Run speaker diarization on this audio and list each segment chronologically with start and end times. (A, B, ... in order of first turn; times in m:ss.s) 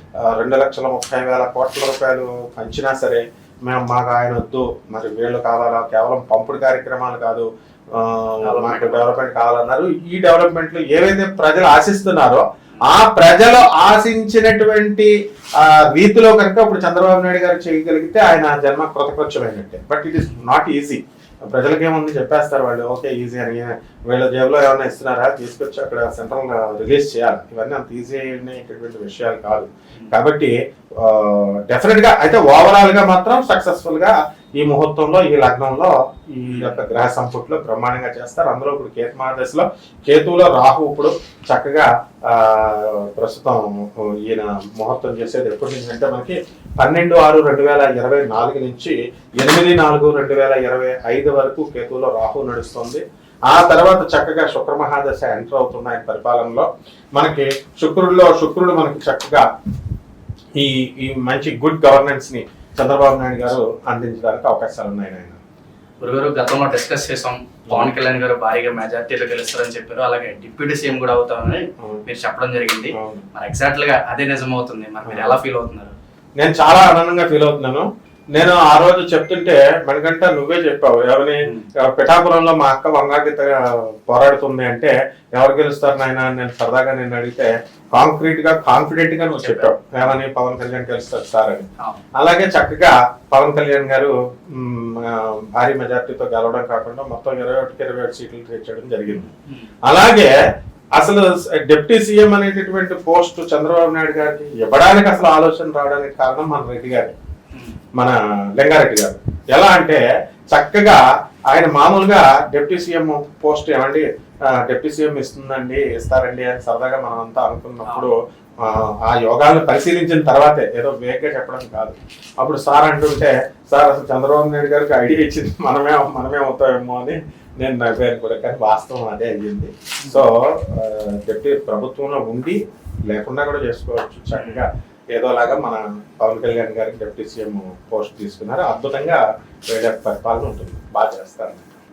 0:00.2-0:21.0 A
0:08.4-0:09.2 B
0:20.2-0:20.4 B
0:21.5-0:59.4 A
0:36.5-0:36.8 B
1:00.6-1:05.4 A
1:06.0-1:15.9 B
1:13.0-1:13.2 A
1:15.0-1:15.4 A
1:16.4-1:31.6 A
1:29.4-1:30.2 B
1:32.2-1:39.3 A
1:39.1-1:39.7 B
1:39.9-1:40.3 A
1:41.0-1:47.1 A
1:48.0-1:50.0 A
1:50.5-1:54.0 A
1:54.6-2:21.7 A
1:57.8-1:58.1 B
2:14.3-2:14.6 B